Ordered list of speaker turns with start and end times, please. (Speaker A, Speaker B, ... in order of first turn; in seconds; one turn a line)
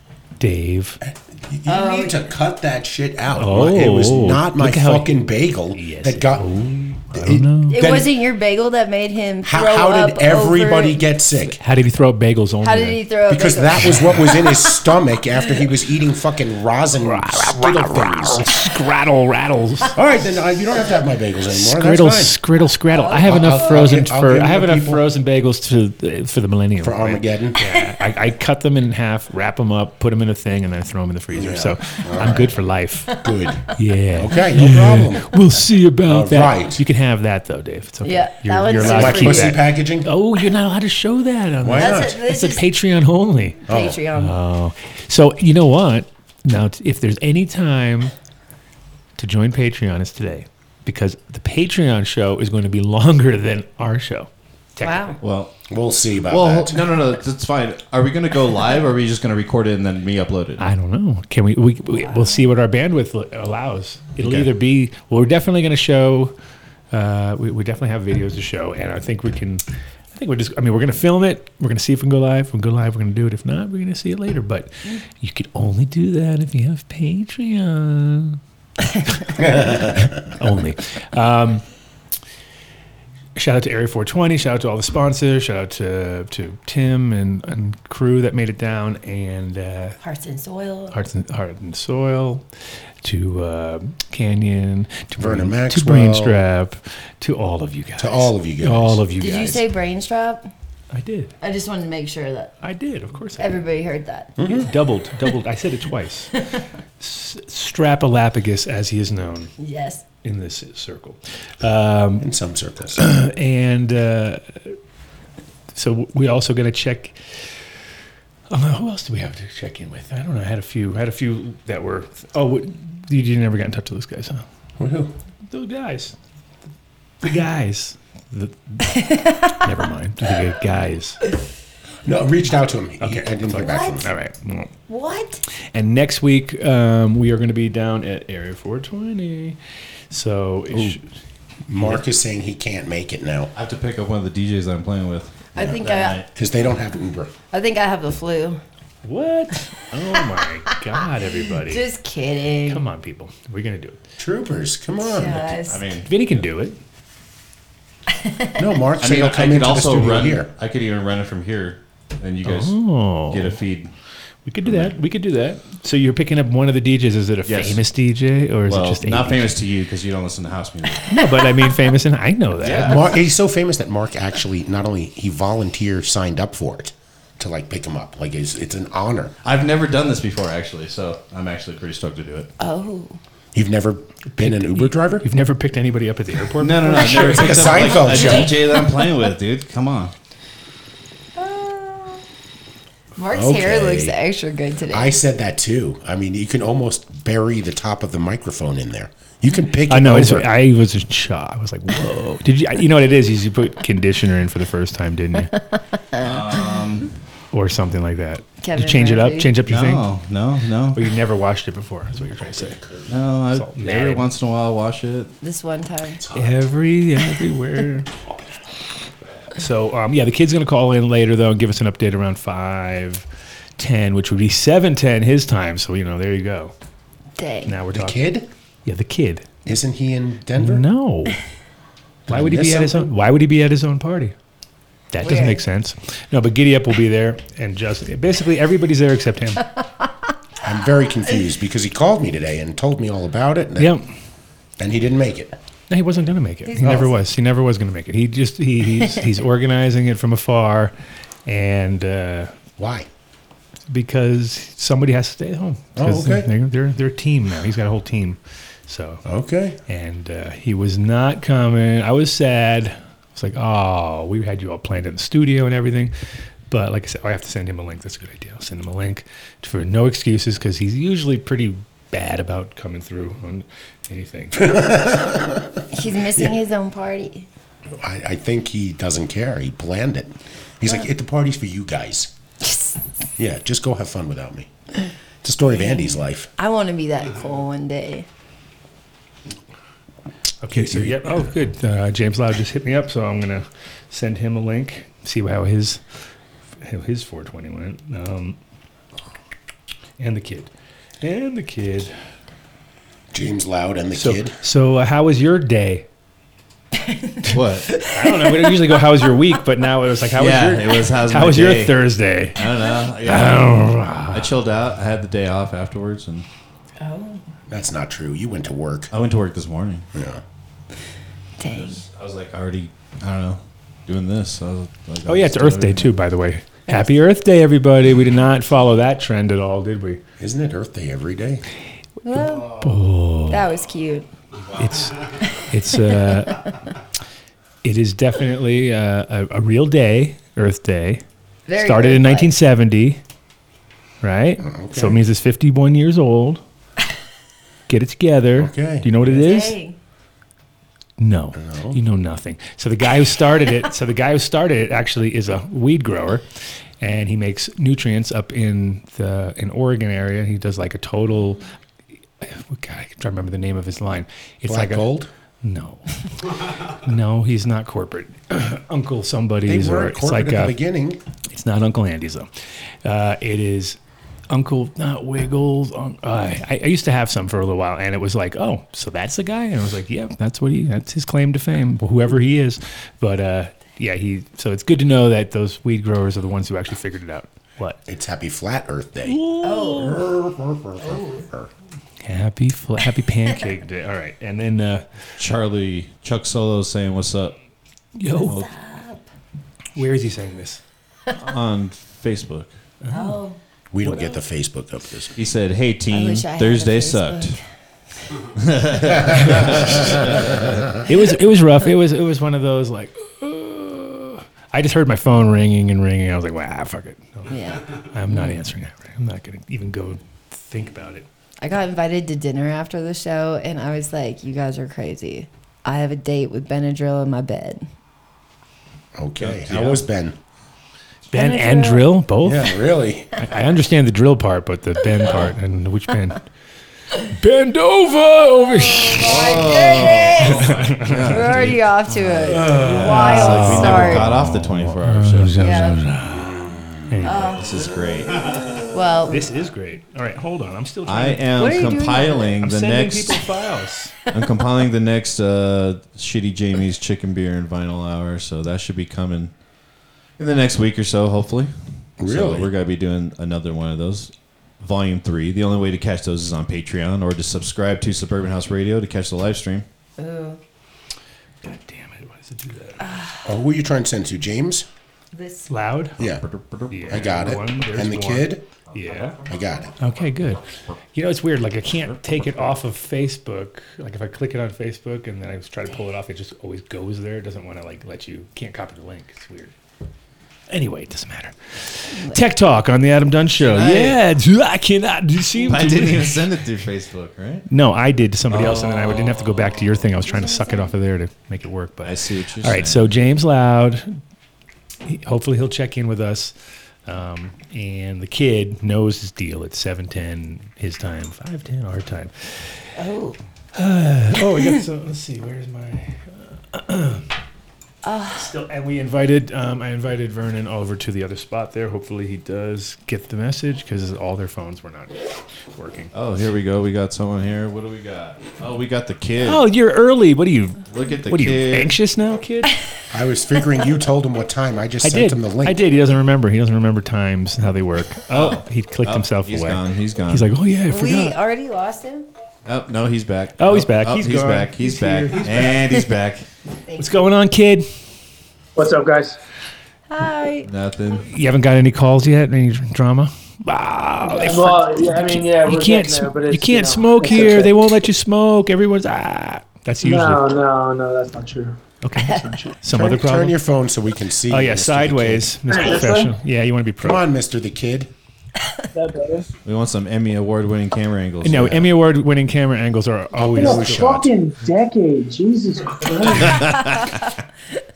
Speaker A: 0.4-1.0
Speaker B: 1.0-6.5
Speaker C: 1.7-2.3
Speaker A: 3.3-7.8
Speaker B: 7.1-8.1
Speaker C: 7.7-11.0
Speaker B: 9.4-11.6
Speaker A: 11.4-13.0
Speaker C: 12.6-14.8
Speaker B: 13.3-18.5
Speaker A: 17.0-19.9
Speaker B: 19.9-22.4
Speaker A: 21.5-43.6
Speaker C: 22.9-23.9
Speaker B: 23.2-25.0
Speaker B: 26.8-27.6
Speaker B: 31.3-32.5
Speaker B: 33.1-35.3
Speaker B: 36.0-36.8
Speaker C: 38.0-39.6
Speaker B: 38.8-40.1
Speaker B: 41.6-42.2
Speaker C: 41.7-42.6
Speaker C: 43.7-44.4
Speaker B: 43.7-44.0
Speaker A: 44.1-48.1
Speaker A: 49.2-55.2
Speaker C: 54.8-55.2
Speaker D: 55.2-55.5
Speaker B: 55.7-56.9
Speaker D: 56.3-60.6
Speaker A: 60.6-66.3
Speaker C: 62.0-62.4
Speaker D: 64.2-64.5
Speaker A: 66.9-69.6
Speaker A: 70.1-78.4
Speaker A: 79.2-81.6
Speaker B: 79.4-80.1
Speaker A: 83.3-90.0
Speaker C: 90.0-91.0
Speaker A: 90.9-92.4
Speaker A: 93.0-99.6
Speaker B: 95.2-96.4
Speaker B: 98.0-99.0
Speaker C: 99.2-100.5
Speaker A: 100.9-101.3
Speaker C: 101.4-102.5
Speaker A: 102.6-103.6
Speaker C: 103.4-104.4
Speaker B: 104.4-104.7
Speaker A: 104.4-106.5
Speaker A: 107.0-109.5
Speaker C: 109.6-110.0
Speaker A: 110.2-112.3
Speaker B: 112.2-113.1
Speaker A: 113.0-114.8
Speaker A: 115.8-117.2
Speaker A: 118.5-124.4
Speaker B: 124.8-125.1
Speaker A: 125.5-126.1
Speaker A: 127.2-131.2
Speaker B: 132.0-134.1
Speaker A: 133.0-134.7
Speaker C: 133.6-134.1
Speaker C: 134.9-135.4
Speaker A: 135.7-139.6
Speaker A: 140.1-141.0
Speaker B: 141.7-143.5
Speaker D: 143.5-146.3
Speaker C: 145.5-146.2
Speaker B: 146.3-147.3
Speaker C: 147.5-148.6
Speaker A: 149.0-151.8
Speaker C: 151.5-152.8
Speaker A: 152.7-154.0
Speaker B: 154.2-155.6
Speaker C: 155.0-155.8
Speaker D: 155.7-156.1
Speaker A: 155.9-156.8
Speaker C: 158.1-158.6
Speaker B: 158.6-160.5
Speaker D: 159.0-163.9
Speaker A: 162.4-163.6
Speaker A: 164.4-169.6
Speaker D: 164.7-164.9
Speaker D: 167.4-167.8
Speaker D: 168.7-171.1
Speaker A: 171.0-173.1
Speaker D: 172.6-173.0
Speaker B: 172.7-179.3
Speaker D: 179.4-182.5
Speaker C: 182.6-183.2
Speaker B: 183.5-185.2
Speaker A: 184.4-188.4
Speaker D: 186.6-190.1
Speaker B: 186.9-188.5
Speaker C: 188.2-189.1
Speaker C: 191.3-192.2
Speaker C: 193.2-195.2
Speaker B: 193.3-194.1
Speaker B: 194.9-200.6
Speaker A: 199.9-205.5
Speaker C: 206.1-206.6
Speaker D: 206.2-207.1
Speaker A: 207.5-210.1
Speaker C: 208.6-209.5
Speaker D: 209.6-211.1
Speaker A: 210.9-212.8
Speaker B: 212.4-213.2
Speaker D: 213.1-215.3
Speaker A: 213.5-214.3
Speaker C: 215.4-216.2
Speaker B: 216.2-216.6
Speaker A: 216.3-218.1
Speaker A: 219.6-223.2
Speaker A: 223.8-226.7
Speaker C: 227.4-227.7
Speaker A: 227.7-228.2
Speaker B: 227.9-228.5
Speaker A: 228.8-229.5
Speaker B: 229.7-230.8
Speaker A: 230.6-231.4
Speaker B: 232.3-233.1
Speaker A: 232.3-234.3
Speaker A: 235.1-239.8
Speaker C: 235.2-235.6
Speaker B: 240.6-243.9
Speaker A: 243.8-244.1
Speaker B: 244.8-245.6
Speaker A: 245.9-250.9
Speaker B: 246.8-247.1
Speaker A: 251.4-252.5
Speaker B: 252.8-253.1
Speaker A: 253.9-259.2
Speaker B: 255.9-256.5
Speaker B: 259.2-259.8
Speaker A: 259.9-266.1
Speaker A: 266.7-274.8
Speaker B: 274.6-275.8
Speaker C: 275.9-277.5
Speaker B: 277.9-282.3
Speaker B: 283.4-284.7
Speaker B: 285.4-286.5
Speaker C: 285.7-288.2
Speaker A: 290.6-296.0
Speaker B: 290.7-291.5
Speaker A: 296.8-298.6
Speaker A: 300.2-302.1
Speaker B: 303.3-304.5
Speaker A: 304.1-306.1
Speaker D: 307.4-308.0
Speaker A: 307.9-312.6
Speaker C: 308.2-308.6
Speaker D: 310.3-313.7
Speaker A: 313.2-314.5
Speaker D: 314.3-316.4
Speaker C: 317.0-317.4
Speaker B: 317.7-319.1
Speaker D: 319.1-320.0
Speaker B: 320.1-320.4
Speaker C: 321.6-322.0
Speaker D: 321.7-326.1
Speaker A: 325.2-330.2
Speaker B: 330.4-331.6
Speaker C: 332.2-332.8
Speaker A: 332.8-333.6
Speaker C: 333.5-334.3
Speaker A: 334.8-336.7
Speaker A: 337.8-341.2
Speaker C: 341.6-342.5
Speaker A: 341.8-343.2
Speaker A: 344.2-346.6
Speaker B: 344.6-345.2
Speaker A: 347.9-349.8
Speaker B: 348.6-349.1
Speaker C: 349.2-350.0
Speaker A: 351.2-356.4
Speaker B: 351.6-352.0
Speaker A: 357.0-361.6
Speaker A: 362.4-365.1
Speaker B: 364.6-365.3
Speaker A: 365.6-370.8
Speaker B: 369.6-371.2
Speaker A: 371.5-372.5
Speaker A: 373.0-374.0
Speaker A: 374.5-388.0
Speaker B: 388.1-391.7
Speaker A: 389.2-390.2
Speaker C: 389.6-390.2
Speaker C: 391.0-391.4
Speaker A: 392.2-395.1
Speaker D: 395.4-397.6
Speaker A: 398.1-398.6
Speaker C: 398.3-399.2
Speaker A: 399.9-400.8
Speaker D: 401.3-402.7
Speaker A: 403.0-403.4
Speaker C: 403.1-403.6
Speaker B: 403.9-405.3
Speaker D: 405.4-407.6
Speaker C: 406.1-407.6
Speaker D: 408.6-410.7
Speaker C: 409.1-410.1
Speaker A: 409.3-409.9
Speaker A: 411.1-421.2
Speaker C: 417.5-418.6
Speaker C: 421.6-427.9
Speaker B: 429.1-430.4
Speaker D: 429.4-429.9
Speaker C: 431.3-432.1
Speaker A: 431.3-432.7
Speaker B: 432.4-433.4
Speaker A: 433.4-436.4
Speaker A: 437.2-439.7
Speaker C: 438.7-440.7
Speaker D: 439.1-445.9
Speaker A: 440.4-441.5
Speaker C: 441.2-444.3
Speaker A: 442.8-447.5
Speaker C: 445.6-446.1
Speaker C: 447.2-447.8
Speaker D: 447.3-448.8
Speaker C: 448.4-449.5
Speaker A: 449.3-451.6
Speaker D: 451.1-453.4
Speaker C: 451.6-452.6
Speaker A: 452.6-454.1
Speaker D: 454.3-459.5
Speaker D: 460.4-469.8
Speaker B: 462.2-462.7
Speaker C: 470.2-470.6
Speaker A: 471.6-473.0
Speaker C: 473.0-473.4
Speaker B: 473.4-474.9
Speaker C: 475.3-475.7
Speaker A: 475.7-476.2
Speaker B: 476.2-476.4
Speaker D: 476.2-477.2
Speaker A: 476.9-479.4
Speaker B: 477.1-478.6
Speaker B: 479.4-479.9
Speaker A: 480.0-480.6
Speaker A: 481.1-489.7
Speaker A: 490.7-496.4
Speaker D: 493.6-494.2
Speaker D: 495.6-497.7
Speaker A: 497.7-504.2
Speaker D: 498.5-500.0
Speaker C: 500.2-500.9
Speaker D: 502.0-503.1
Speaker A: 505.0-506.5
Speaker A: 507.1-512.8
Speaker C: 513.0-513.4
Speaker A: 513.7-517.3
Speaker C: 518.0-518.5
Speaker A: 518.4-526.1
Speaker D: 526.1-529.6
Speaker A: 529.4-532.7
Speaker D: 530.9-531.9
Speaker B: 533.1-535.8
Speaker A: 535.0-541.3
Speaker D: 538.3-540.5
Speaker C: 540.9-542.3
Speaker D: 542.6-546.5
Speaker A: 543.6-545.9
Speaker C: 546.9-547.3
Speaker A: 547.0-547.9
Speaker E: 548.8-549.4
Speaker C: 550.1-550.7
Speaker D: 550.6-551.2
Speaker A: 551.2-560.4
Speaker E: 554.2-557.7
Speaker E: 560.0-561.8
Speaker A: 562.0-563.5
Speaker C: 562.2-562.5
Speaker B: 562.9-565.8
Speaker A: 564.5-567.2
Speaker E: 565.7-566.3
Speaker B: 567.0-568.1
Speaker E: 568.9-569.5
Speaker D: 569.6-571.9
Speaker A: 571.4-574.2
Speaker B: 573.3-574.3
Speaker E: 573.6-576.8